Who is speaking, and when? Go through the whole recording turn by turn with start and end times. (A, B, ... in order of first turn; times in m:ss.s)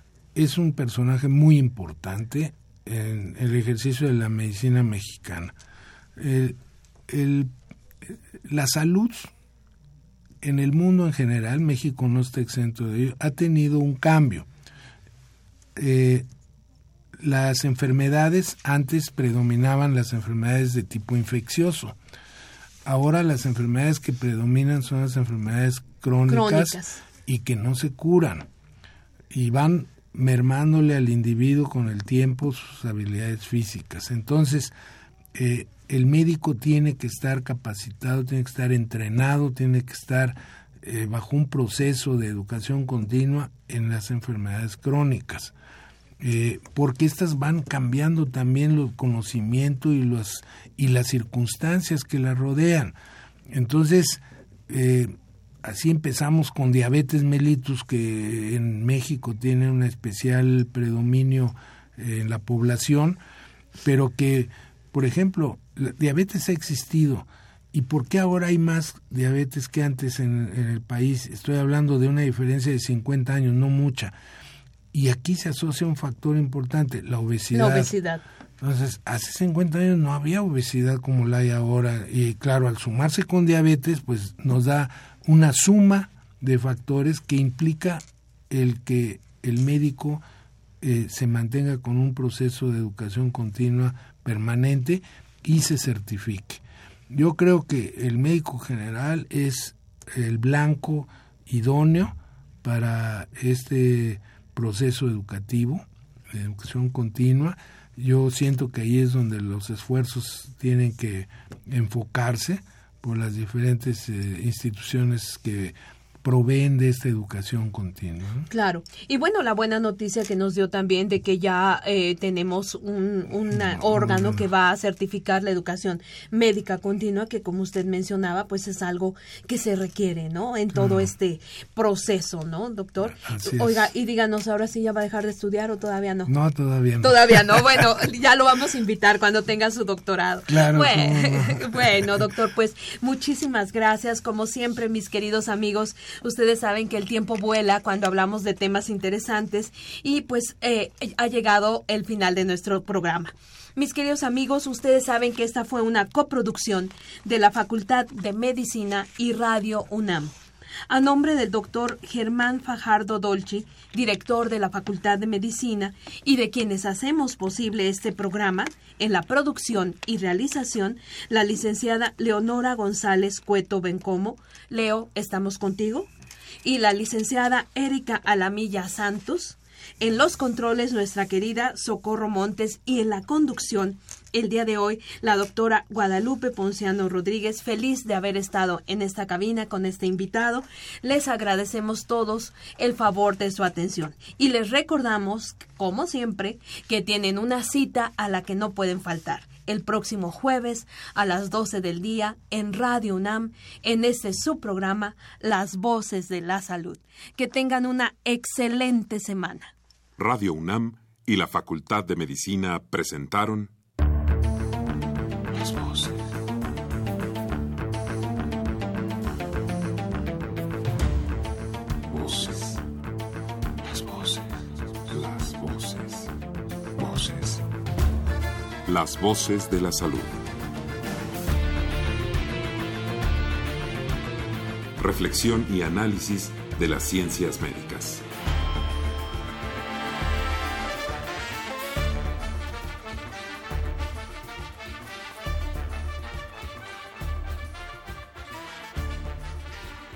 0:00.4-0:05.5 A
0:06.2-0:07.5 A
0:08.0-0:09.3 A
0:10.4-0:14.5 A
0:15.8-0:16.2 A
0:17.2-0:22.0 A
0:22.8-0:28.5 A
0:26.3-0:27.0 B
0:29.3-0:34.7 A
0:35.3-0:45.5 A
0:46.2-0:52.9 A
0:53.5-1:03.2 A
1:03.8-1:14.2 A
1:14.9-1:17.9 A
1:17.5-1:18.2 B
1:18.6-1:30.2 A
1:30.8-1:58.5 A
1:58.5-2:16.3 B
2:03.5-2:04.4 A
2:10.7-2:11.1 A
2:13.2-2:13.9 A
2:16.3-2:17.8 A
2:17.0-2:40.3 B
2:20.5-2:22.2 A
2:40.9-2:56.1 B
2:56.6-3:29.7 B
3:30.2-3:33.7 C
3:35.5-3:36.2 C
3:42.1-3:42.8 C
3:43.8-3:46.3 C
3:47.0-3:47.6 C
3:48.9-3:50.4 C
3:55.0-3:58.2 C